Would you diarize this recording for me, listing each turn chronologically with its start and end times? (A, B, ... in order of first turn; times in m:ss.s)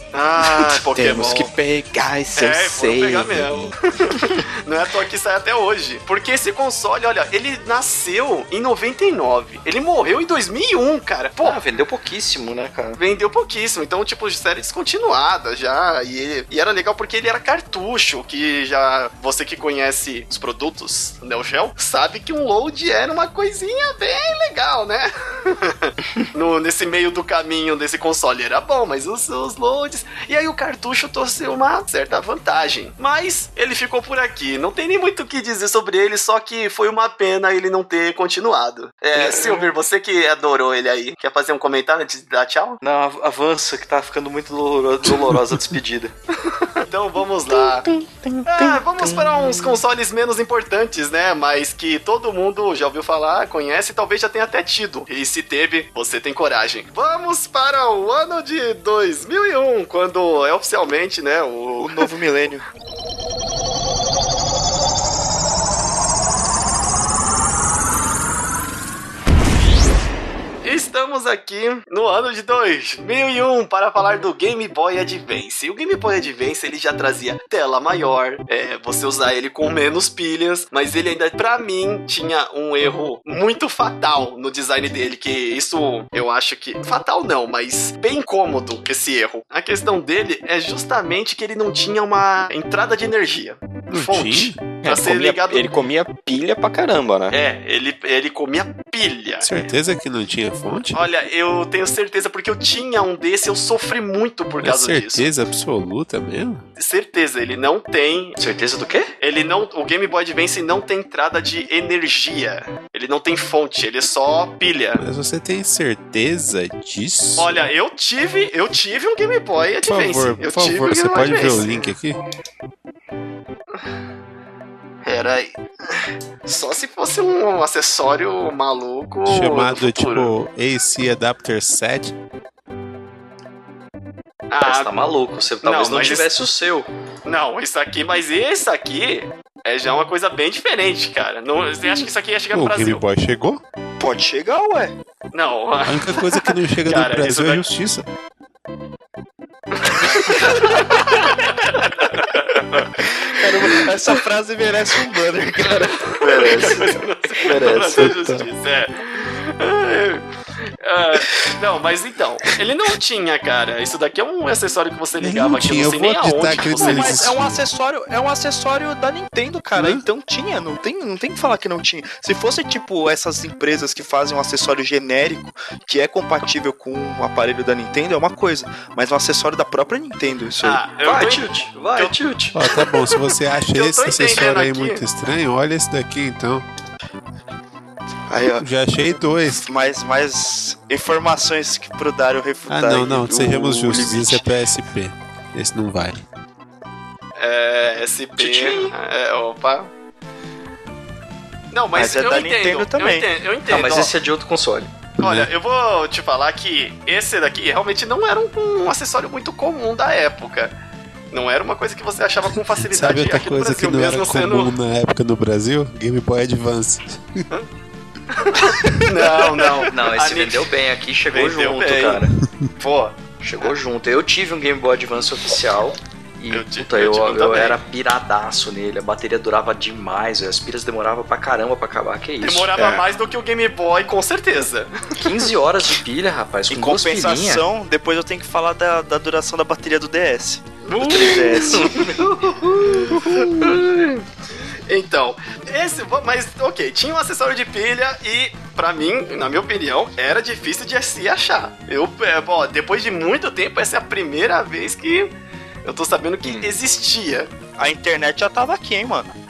0:00.1-0:01.5 A
0:00.5-0:03.7 B
0:02.4-0:11.6 A
0:11.4-0:13.0 C
0:13.0-0:42.8 A
0:39.2-0:39.7 C
0:42.8-0:46.1 C
0:46.5-0:47.9 A
0:47.5-0:48.8 B
0:48.5-1:02.1 A
1:01.8-1:02.7 D
1:10.6-1:35.7 A
1:33.9-1:34.7 E
1:34.8-1:37.4 B
1:37.3-1:39.6 A
1:39.4-1:41.0 E
1:40.9-1:45.3 A
1:44.6-1:46.6 E
1:46.8-1:48.4 A
1:48.4-1:49.1 C
1:49.2-1:55.0 A
1:55.0-1:57.6 E
1:57.4-2:01.8 A
1:59.8-2:02.2 E
2:05.0-2:10.3 A
2:09.2-2:12.1 E
2:14.5-2:14.9 A
2:14.6-2:16.9 C
2:15.6-2:16.3 A
2:17.3-2:23.0 A
2:22.5-2:23.6 E
2:24.0-2:25.0 D
2:25.3-2:27.7 A
2:25.8-2:28.1 E
2:29.8-2:33.8 A
2:33.2-2:36.6 D
2:36.2-2:40.2 A
2:36.2-2:38.1 C
2:38.1-2:38.4 E
2:40.8-2:47.4 A
2:45.2-2:47.6 E
2:46.8-3:00.8 D
3:00.6-3:02.2 A
3:01.0-3:02.6 C
3:02.5-3:06.6 E
3:03.1-3:05.0 A
3:08.3-3:08.7 D
3:08.6-3:09.7 E
3:09.5-3:14.4 D
3:12.7-3:16.2 E
3:17.4-3:19.9 A
3:18.4-3:18.9 C
3:21.7-3:24.1 A
3:21.9-3:23.3 D
3:23.7-3:24.9 C
3:25.2-3:25.5 E
3:25.2-3:30.7 A
3:31.3-3:34.7 A
3:32.8-3:37.4 E
3:38.3-3:40.7 A
3:39.8-3:42.3 C
3:41.3-3:42.3 A
3:42.8-3:43.7 A
3:43.4-3:52.7 C
3:46.5-3:47.8 A
3:52.4-3:55.2 A
3:52.8-3:53.0 B
3:55.2-3:57.6 C
3:56.7-4:02.1 D
4:00.8-4:04.3 A
4:01.1-4:03.4 C
4:04.9-4:15.3 A
4:15.8-4:17.5 A
4:16.4-4:16.7 B
4:17.8-4:19.3 D